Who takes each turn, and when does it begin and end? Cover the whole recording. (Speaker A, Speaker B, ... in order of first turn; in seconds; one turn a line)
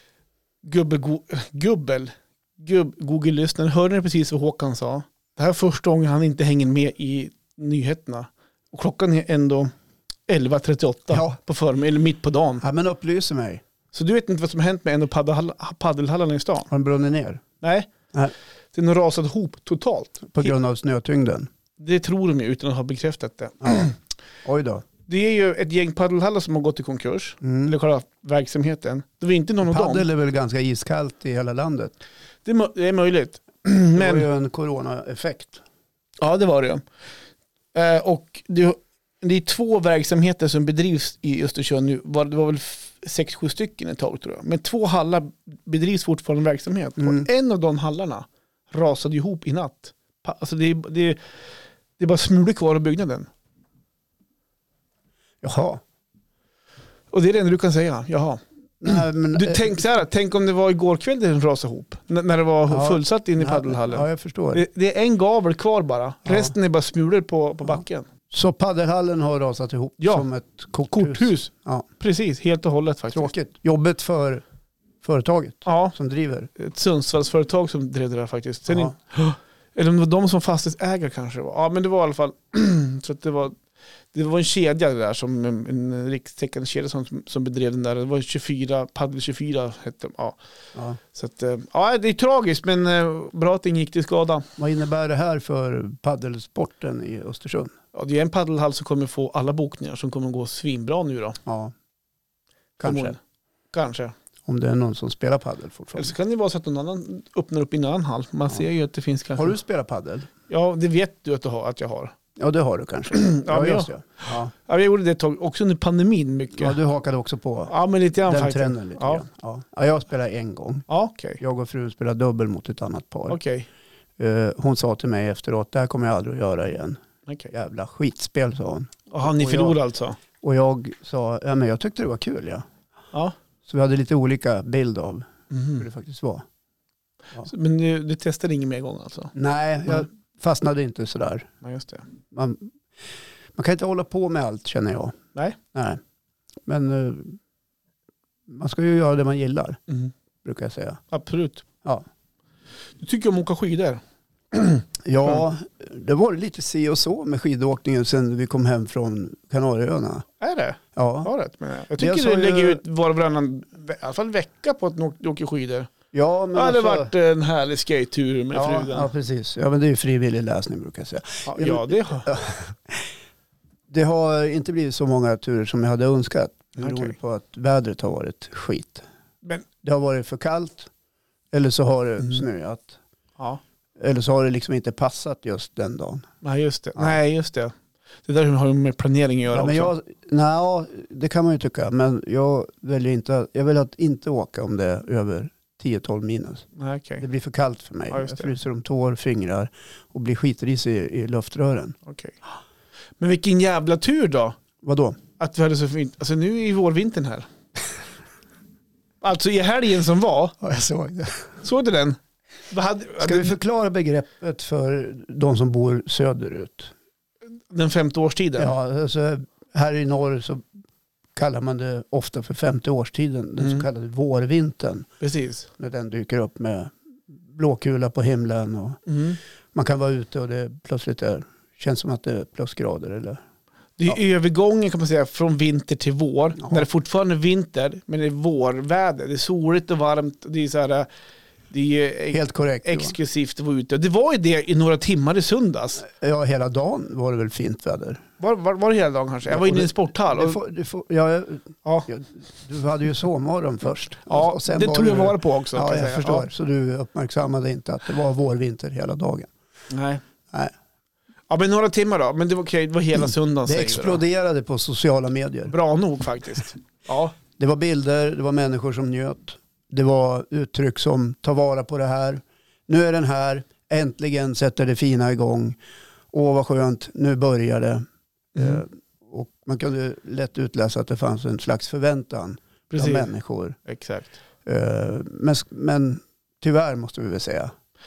Speaker A: 0.6-9.7
Speaker A: 10.3-12.6
Speaker B: 11.1-11.3
Speaker B: 12.6-13.6
Speaker A: 13.9-16.7
Speaker B: 16.7-17.4
Speaker A: 17.6-17.9
Speaker A: 18.7-20.5
Speaker B: 20.3-21.5
Speaker A: 21.8-24.0
Speaker B: 23.6-23.9
Speaker B: 24.4-24.8
Speaker A: 25.1-30.1
Speaker B: 27.4-27.7
Speaker B: 29.6-31.9
Speaker A: 32.4-34.2
Speaker B: 33.9-35.6
Speaker A: 36.2-36.8
Speaker A: 37.7-51.2
Speaker B: 47.0-47.3
Speaker A: 52.0-53.3
Speaker B: 55.4-55.8
Speaker A: 57.1-68.0
Speaker B: 58.8-59.8
Speaker B: 62.7-64.6
Speaker B: 66.3-66.5
Speaker B: 68.3-71.8
Speaker A: 70.0-70.3
Speaker A: 70.9-73.3
Speaker B: 73.1-74.4
Speaker B: 75.0-76.5
Speaker A: 75.7-75.9
Speaker A: 76.5-83.6
Speaker A: 84.1-90.4
Speaker A: 91.1-94.5
Speaker B: 94.6-97.7
Speaker A: 97.9-101.4
Speaker B: 101.5-101.7
Speaker B: 102.8-103.1
Speaker A: 102.8-103.2
Speaker A: 103.7-104.1
Speaker B: 104.5-106.1
Speaker A: 105.9-109.5
Speaker B: 109.3-110.3
Speaker A: 110.5-112.1
Speaker B: 112.4-114.5
Speaker A: 113.1-116.8
Speaker B: 116.6-120.8
Speaker A: 117.7-119.2
Speaker A: 120.9-121.4
Speaker B: 121.4-123.4
Speaker A: 123.3-123.7
Speaker B: 124.2-129.8
Speaker A: 129.1-130.2
Speaker B: 130.4-132.7
Speaker B: 133.7-136.4
Speaker A: 135.5-135.8
Speaker A: 137.4-139.3
Speaker B: 139.3-141.5
Speaker A: 141.6-142.0
Speaker B: 142.3-142.7
Speaker B: 143.6-145.2
Speaker B: 145.7-146.0
Speaker B: 146.7-147.4
Speaker B: 148.5-149.8
Speaker B: 150.4-151.0
Speaker A: 151.1-151.6
Speaker A: 153.0-154.0
Speaker A: 154.5-155.4
Speaker B: 155.0-160.2
Speaker A: 160.4-165.9
Speaker B: 160.9-161.3
Speaker B: 161.9-162.8
Speaker B: 166.1-167.1
Speaker A: 166.5-169.1
Speaker B: 168.5-173.1
Speaker A: 171.4-172.3
Speaker B: 173.9-179.0
Speaker A: 176.8-177.1
Speaker B: 179.8-180.9
Speaker B: 181.5-183.0
Speaker B: 184.0-186.2
Speaker A: 186.4-187.7
Speaker A: 188.2-189.9
Speaker B: 189.5-196.6
Speaker A: 196.8-197.2
Speaker B: 197.2-202.0
Speaker A: 198.1-198.5
Speaker A: 202.1-202.4
Speaker A: 203.2-204.6
Speaker B: 204.8-205.2
Speaker A: 205.4-207.5
Speaker A: 209.2-210.6
Speaker B: 210.6-211.5
Speaker A: 211.6-212.2
Speaker A: 212.7-213.5
Speaker B: 213.2-216.9
Speaker A: 217.7-218.7
Speaker B: 218.6-220.6
Speaker B: 221.3-225.1
Speaker A: 223.6-223.8
Speaker A: 225.2-225.7
Speaker B: 225.8-229.0
Speaker A: 229.1-229.4
Speaker B: 229.7-233.4
Speaker A: 234.0-241.1
Speaker B: 236.6-236.8
Speaker A: 241.7-246.0
Speaker B: 242.3-243.1
Speaker B: 246.0-248.2
Speaker A: 248.4-250.6
Speaker B: 249.5-259.5
Speaker A: 254.3-256.5
Speaker A: 259.9-260.2
Speaker A: 261.5-264.2
Speaker B: 263.6-265.7
Speaker A: 265.7-267.3
Speaker B: 267.6-275.8
Speaker B: 276.3-283.8
Speaker A: 278.5-278.8
Speaker A: 282.9-283.3
Speaker A: 283.9-284.4
Speaker B: 284.6-287.7